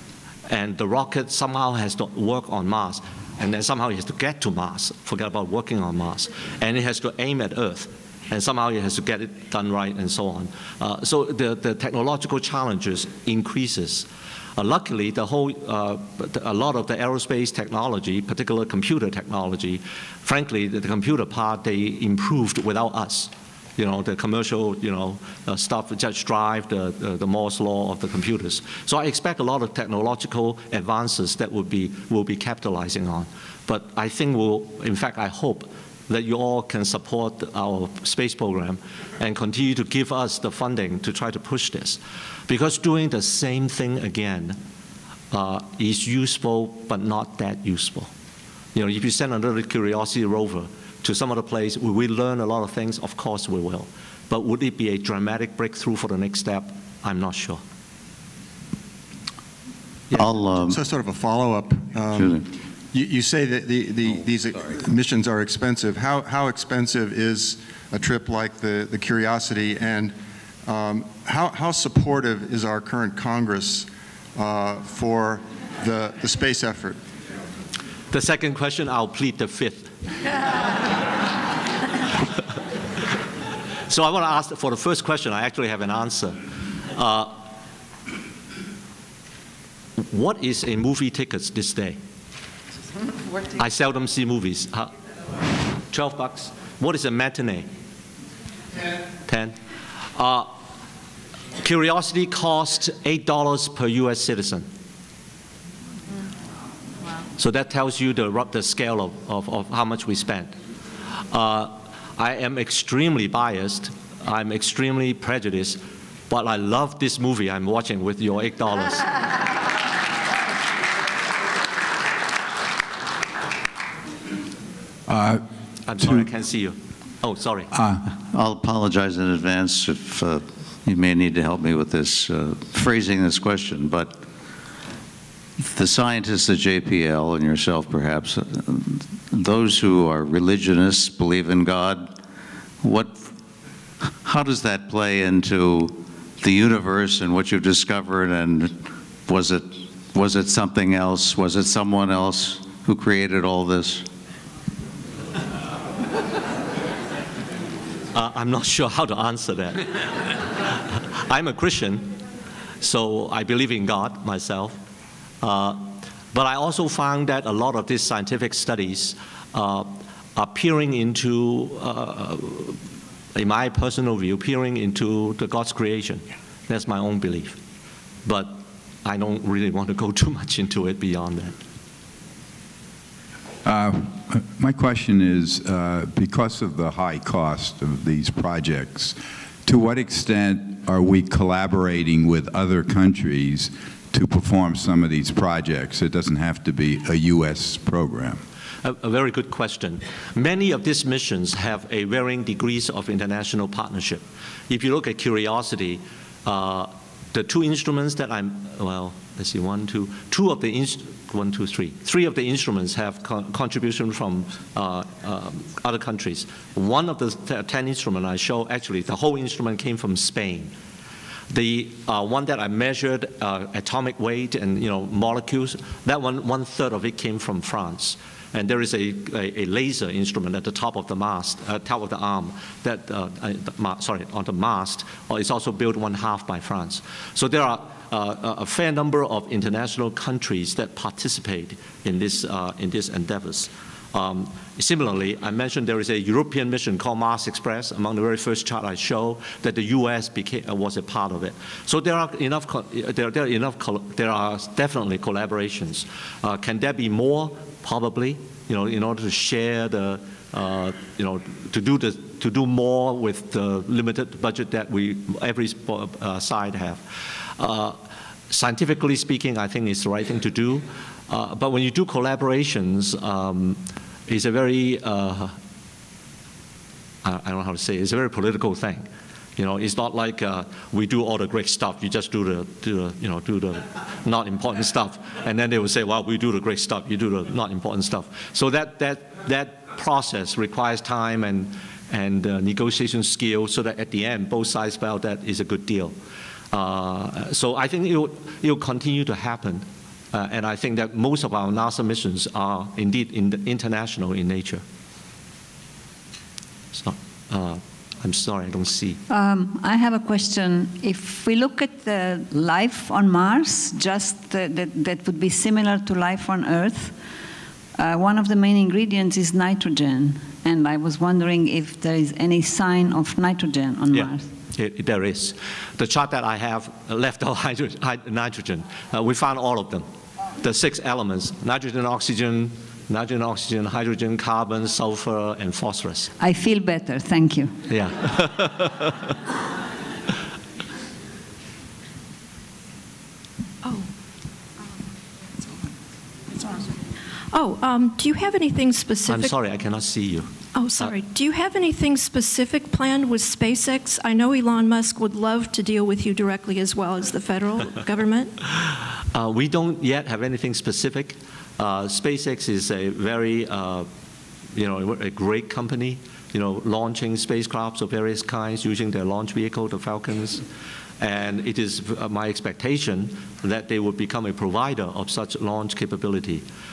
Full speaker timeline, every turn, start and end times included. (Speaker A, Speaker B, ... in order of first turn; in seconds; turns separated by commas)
Speaker A: 0.5-44.6, Speaker A: 45.3-48.1, Speaker A: 48.8-57.6, Speaker B: 60.1-60.8, Speaker C: 60.1-70.2, Speaker B: 62.1-62.4, Speaker C: 70.7-77.0, Speaker A: 78.1-79.9, Speaker A: 83.9-87.5, Speaker A: 90.0-92.0, Speaker A: 93.5-94.9, Speaker A: 95.9-97.7, Speaker A: 99.3-99.6, Speaker A: 100.2-100.5, Speaker A: 101.6-104.7, Speaker A: 107.4-110.6, Speaker A: 111.3-119.2, Speaker D: 125.1-125.4, Speaker A: 125.9-127.7, Speaker D: 127.7-128.0, Speaker B: 128.1-134.2, Speaker B: 135.6-142.2, Speaker B: 142.8-143.3, Speaker B: 144.2-154.1, Speaker A: 158.1-160.4, Speaker A: 160.9-162.1, Speaker A: 162.8-164.8, Speaker A: 165.4-172.8, Speaker A: 173.3-177.6, Speaker A: 178.2-181.6, Speaker D: 183.7-198.4, Speaker A: 198.8-220.7, Speaker A: 221.5-275.6, Speaker A: 277.2-296.1, Speaker A: 296.7-304.8, Speaker A: 306.9-309.2, Speaker E: 309.3-317.2, Speaker E: 318.0-324.5, Speaker A: 324.1-330.1, Speaker A: 330.6-336.3, Speaker E: 336.4-337.8, Speaker A: 337.9-339.1, Speaker F: 343.8-344.1, Speaker F: 347.5-349.6, Speaker A: 349.3-351.1, Speaker F: 350.8-358.6, Speaker A: 359.3-364.1, Speaker A: 364.8-370.6, Speaker A: 371.2-376.6